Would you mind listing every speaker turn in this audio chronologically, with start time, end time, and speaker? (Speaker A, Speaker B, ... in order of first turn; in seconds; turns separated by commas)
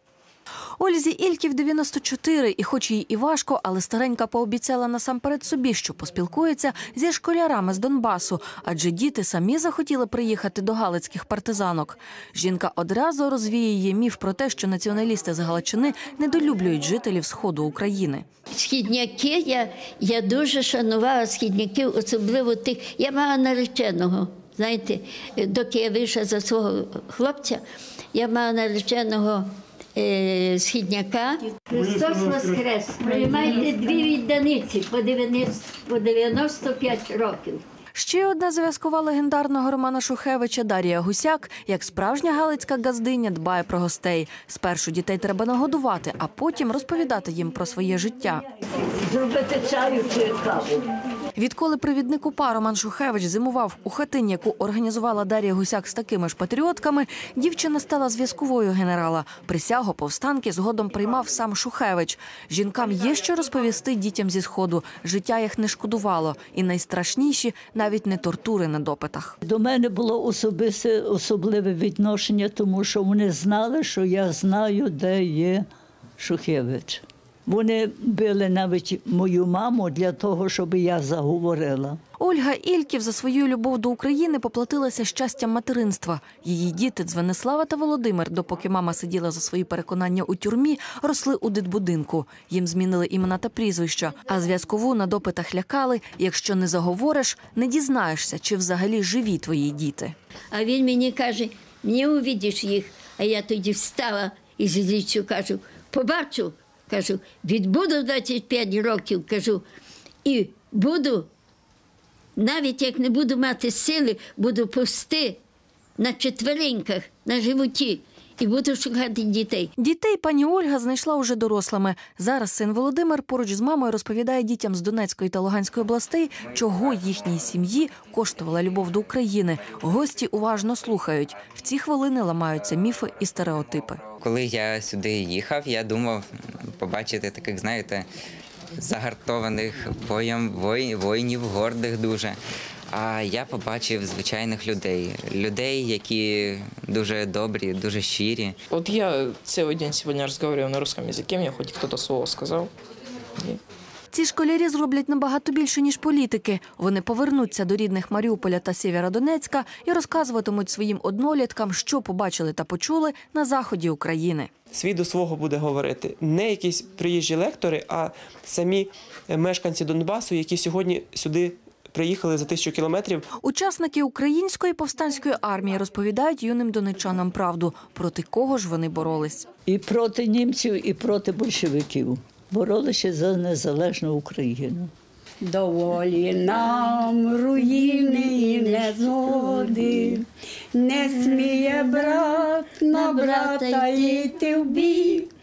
Speaker A: 0.8-18.2, Speaker B: 18.5-27.6, Speaker B: 28.1-37.6, Speaker A: 37.9-48.4, Speaker C: 48.9-50.8, Speaker A: 51.4-69.3, Speaker C: 69.4-75.6, Speaker C: 76.2-82.0, Speaker A: 82.2-100.1, Speaker B: 100.5-109.6, Speaker B: 110.2-111.3, Speaker B: 112.4-115.4, Speaker B: 116.0-119.7, Speaker A: 119.8-134.0, Speaker D: 134.2-138.1, Speaker D: 138.8-142.4, Speaker D: 142.9-148.6, Speaker E: 148.7-152.7, Speaker A: 154.1-164.5, Speaker F: 164.7-173.2, Speaker A: 173.4-179.5, Speaker C: 179.7-184.9, Speaker G: 185.4-195.3, Speaker B: 186.6-187.0, Speaker B: 187.5-190.1, Speaker B: 191.2-195.2